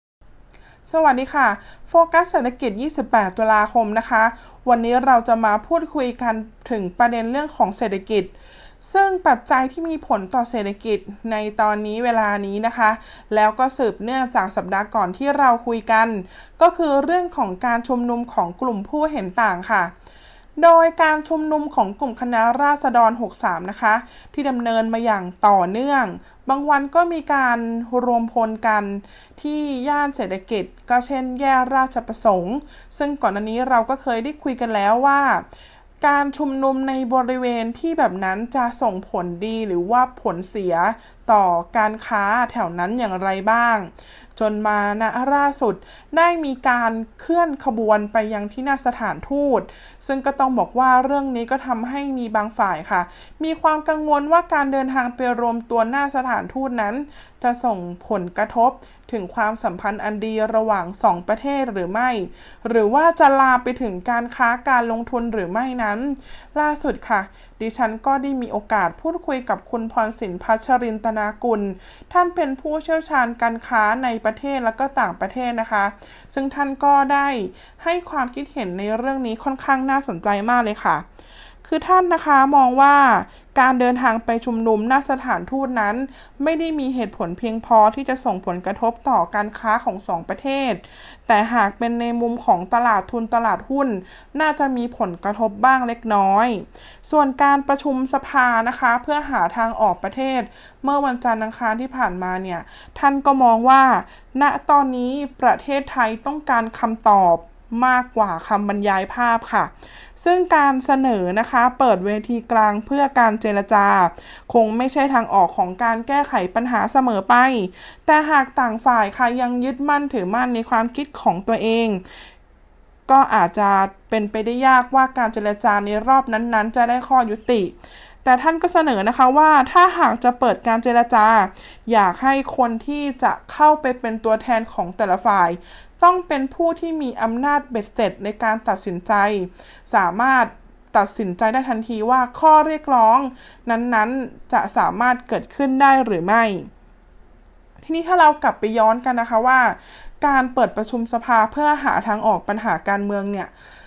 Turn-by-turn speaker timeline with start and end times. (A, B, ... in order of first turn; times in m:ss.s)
0:00.9-0:19.9 A
0:20.6-0:35.5 A
0:36.0-1:21.1 A
1:21.6-2:02.2 A
2:03.1-2:26.7 A
2:27.8-2:33.5 A